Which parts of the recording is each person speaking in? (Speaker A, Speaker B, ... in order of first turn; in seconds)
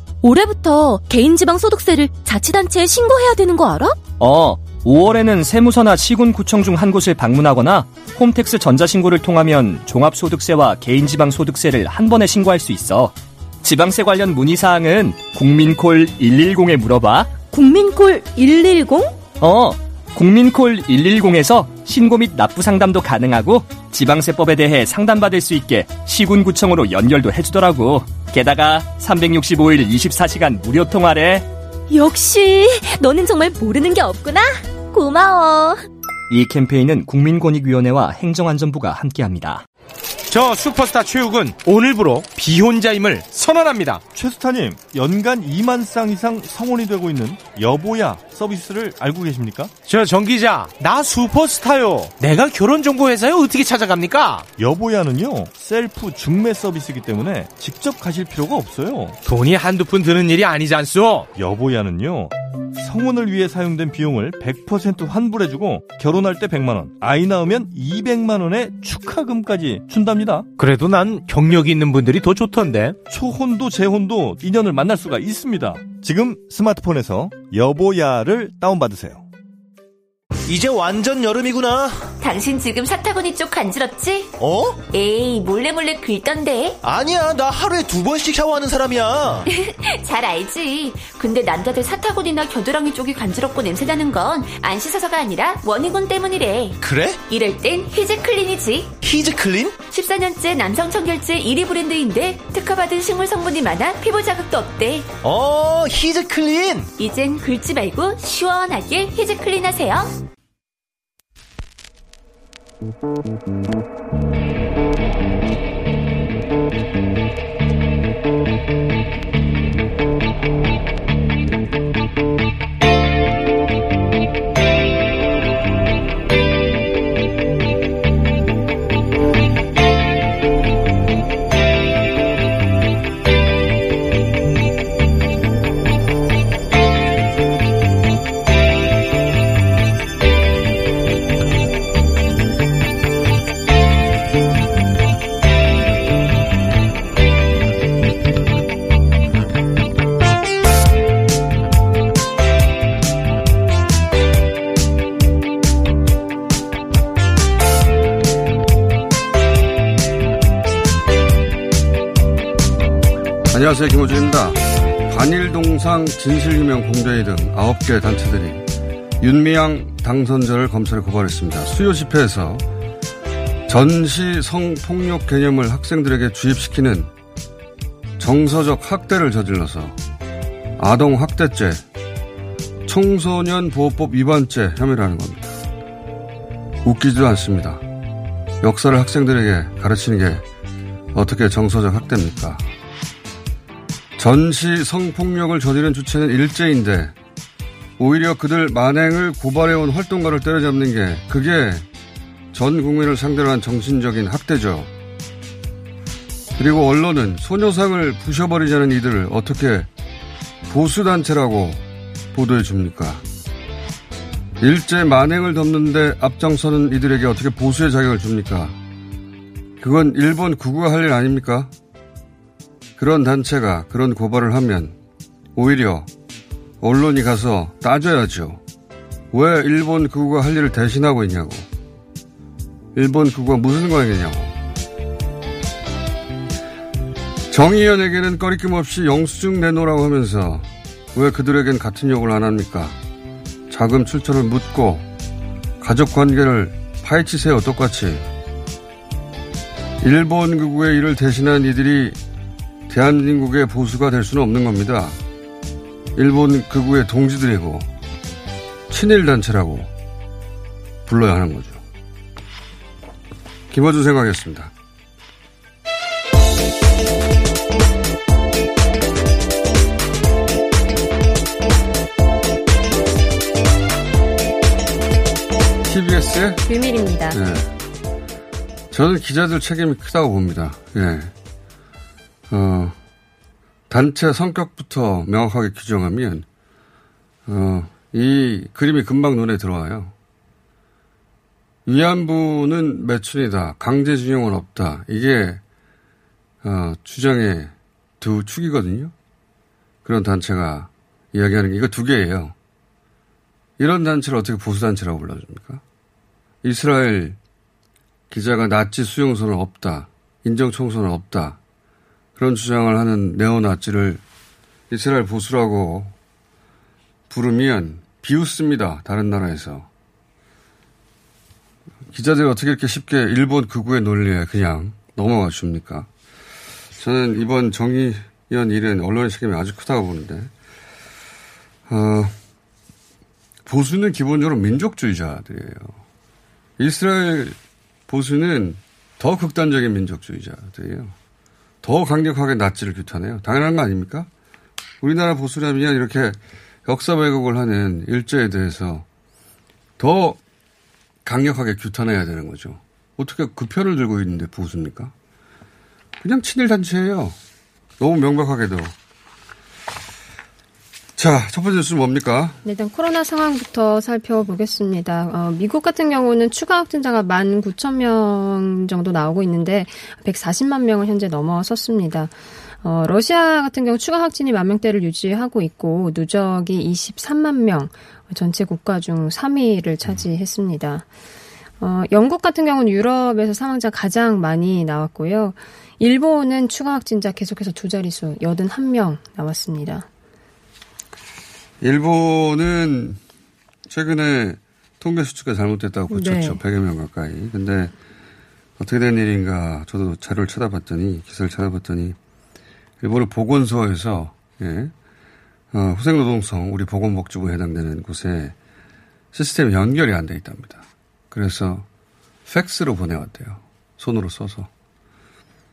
Speaker A: 0.2-4.0, 17.5-19.2, 31.9-35.8
Speaker B: 4.2-17.4, 19.4-31.5, 36.3-39.6
Speaker C: 40.3-44.0, 49.8-54.5, 59.2-61.3, 70.6-73.0
Speaker D: 44.1-49.7, 54.5-59.2, 61.3-70.5, 73.1-79.2
Speaker E: 80.5-82.1, 84.4-84.8, 86.8-89.4, 96.8-97.2, 99.0-99.8, 105.2-106.9
Speaker F: 82.2-84.3, 84.8-86.8, 89.5-99.0, 99.8-105.1, 107.0-110.2
Speaker G: 163.5-168.6, 169.2-172.6, 173.7-177.1, 178.2-180.0, 180.8-181.8, 182.8-185.6, 186.8-187.8, 188.6-190.4, 191.1-192.6, 194.2-197.1, 198.0-201.8, 202.5-204.9, 206.6-209.9, 210.7-213.2, 214.6-218.8, 219.8-221.7, 223.0-224.9, 225.5-226.1, 226.8-228.6, 229.3-231.7, 232.9-234.5, 237.5-243.0, 243.7-245.1, 245.8-248.2, 250.0-252.2, 252.9-255.2, 256.1-257.9, 258.9-259.9, 261.0-261.8, 263.7-264.7, 275.8-276.6, 277.3-277.7, 278.9-281.3, 282.5-282.9, 283.9-286.4, 287.4-290.1, 291.9-295.6, 296.6-299.1, 300.0-302.5, 303.8-305.8, 306.6-307.4, 308.3-311.6, 312.4-314.2, 314.9-316.1, 317.3-319.9, 322.1-326.1, 326.9-330.5, 331.9-332.3, 333.6-336.0, 336.8-337.6, 338.1-341.1, 341.8-344.3, 345.0-349.1, 350.0-350.4, 351.2-355.1, 356.2-357.4, 358.0-358.9, 361.1-362.6, 391.8-393.2, 393.9-397.9, 398.8-402.2, 403.0-404.9, 405.7-408.5, 409.3-411.9, 412.4-414.7
Speaker H: 276.7-277.4, 362.6-381.1, 381.8-390.1, 396.1-396.6